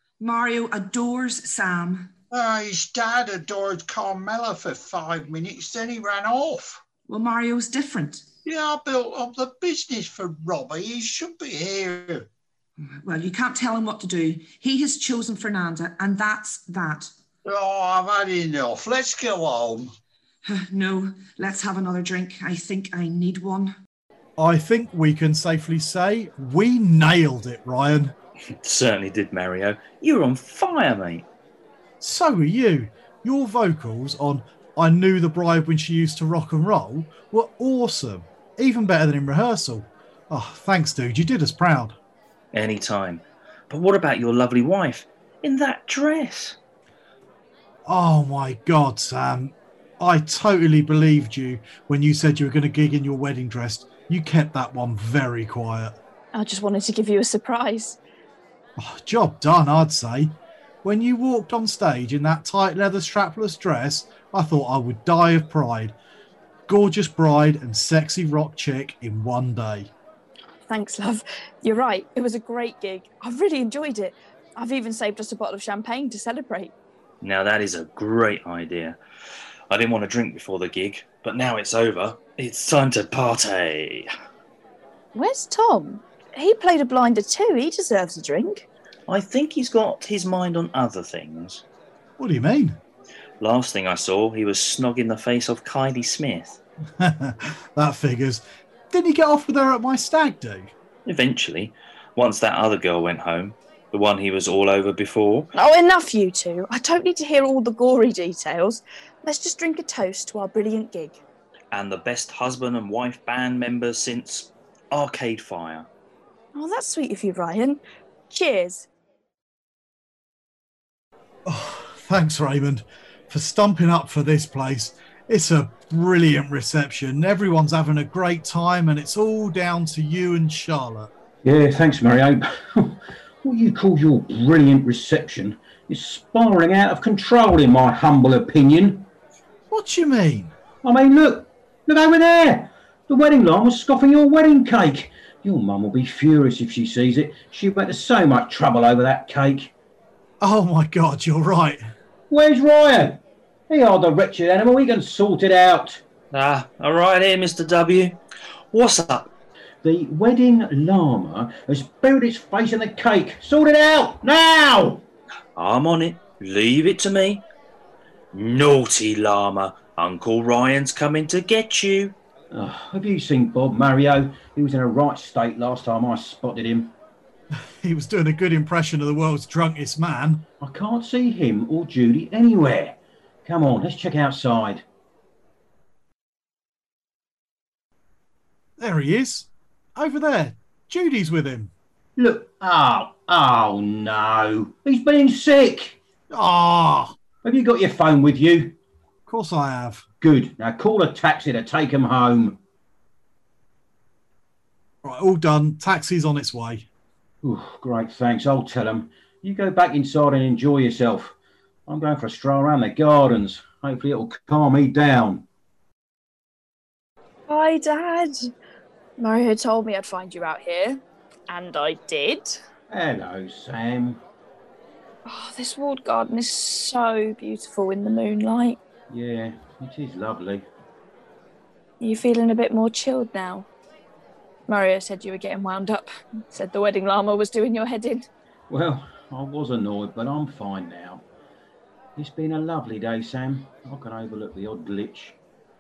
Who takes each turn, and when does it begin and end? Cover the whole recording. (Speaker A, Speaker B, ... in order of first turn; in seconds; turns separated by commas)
Speaker A: 0.2-2.1, Speaker B: 2.3-6.8, Speaker A: 7.1-8.2, Speaker B: 8.4-12.2, Speaker A: 12.8-17.1, Speaker B: 17.4-19.9, Speaker A: 20.4-23.7, Speaker C: 24.4-28.1, Speaker D: 28.6-31.2, Speaker C: 32.0-41.9, Speaker D: 42.5-46.5, Speaker C: 47.9-55.9, Speaker E: 56.3-58.0, Speaker C: 58.8-66.0, Speaker C: 66.7-69.9, Speaker E: 70.7-76.7, Speaker D: 77.2-79.0, Speaker D: 79.7-84.1, Speaker E: 85.2-88.6, Speaker D: 89.1-91.6, Speaker C: 92.2-92.8, Speaker D: 93.4-96.6, Speaker C: 97.0-100.7, Speaker D: 101.0-105.5, Speaker E: 105.5-111.2, Speaker D: 111.7-115.9, Speaker E: 116.5-118.8, Speaker C: 121.5-131.1, Speaker F: 131.4-139.1, Speaker C: 139.7-140.5, Speaker F: 140.8-149.7, Speaker C: 150.4-151.8, Speaker F: 152.3-156.0, Speaker D: 156.3-158.2, Speaker D: 158.7-159.3, Speaker F: 159.8-165.0, Speaker D: 165.6-167.4, Speaker D: 168.3-172.1, Speaker F: 172.5-176.9, Speaker C: 177.8-180.5, Speaker F: 180.6-184.8, Speaker C: 188.8-191.7, Speaker F: 192.2-196.0, Speaker C: 196.3-197.2, Speaker F: 197.4-198.8, Speaker C: 199.3-200.0, Speaker F: 200.2-202.6, Speaker C: 205.0-206.8, Speaker F: 207.4-211.3, Speaker F: 211.9-215.4, Speaker E: 217.5-218.3, Speaker E: 219.2-222.5, Speaker F: 222.9-224.2, Speaker E: 225.3-228.8, Speaker F: 229.1-230.7, Speaker E: 232.0-233.7, Speaker E: 234.7-238.2, Speaker F: 238.7-241.2, Speaker F: 242.2-245.3